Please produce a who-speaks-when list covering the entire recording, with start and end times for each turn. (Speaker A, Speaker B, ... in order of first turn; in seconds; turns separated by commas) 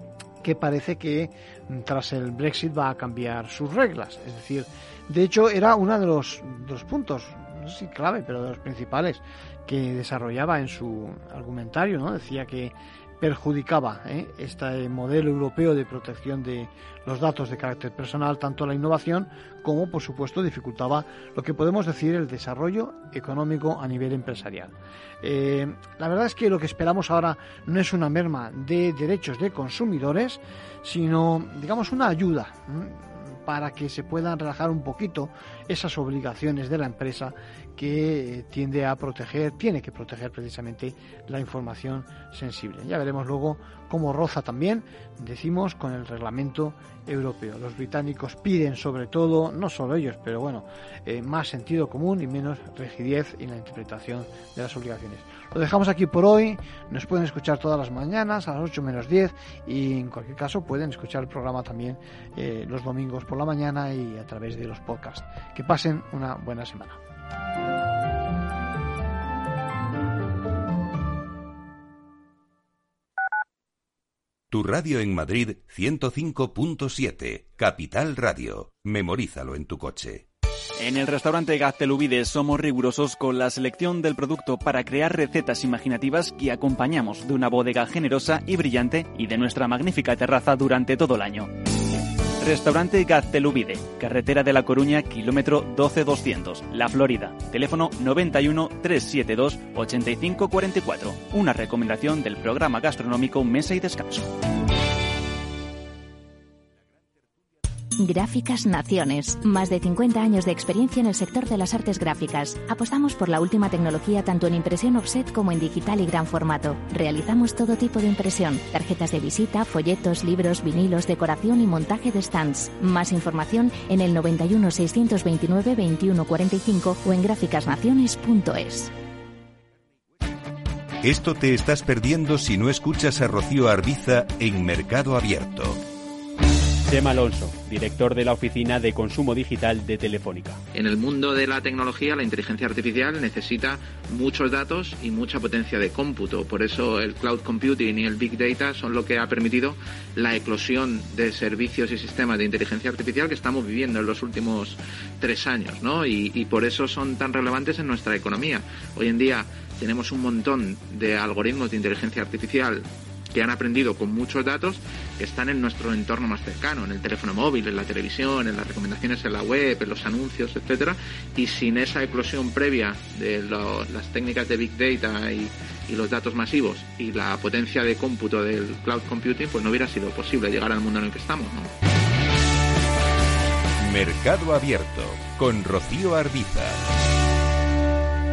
Speaker A: 0.4-67.0, Speaker B: 74.5-80.3, Speaker C: 80.8-91.5, Speaker C: 92.4-104.3, Speaker D: 108.0-128.9, Speaker B: 131.0-135.8, Speaker E: 136.8-140.6, Speaker F: 140.7-181.7, Speaker B: 183.8-186.8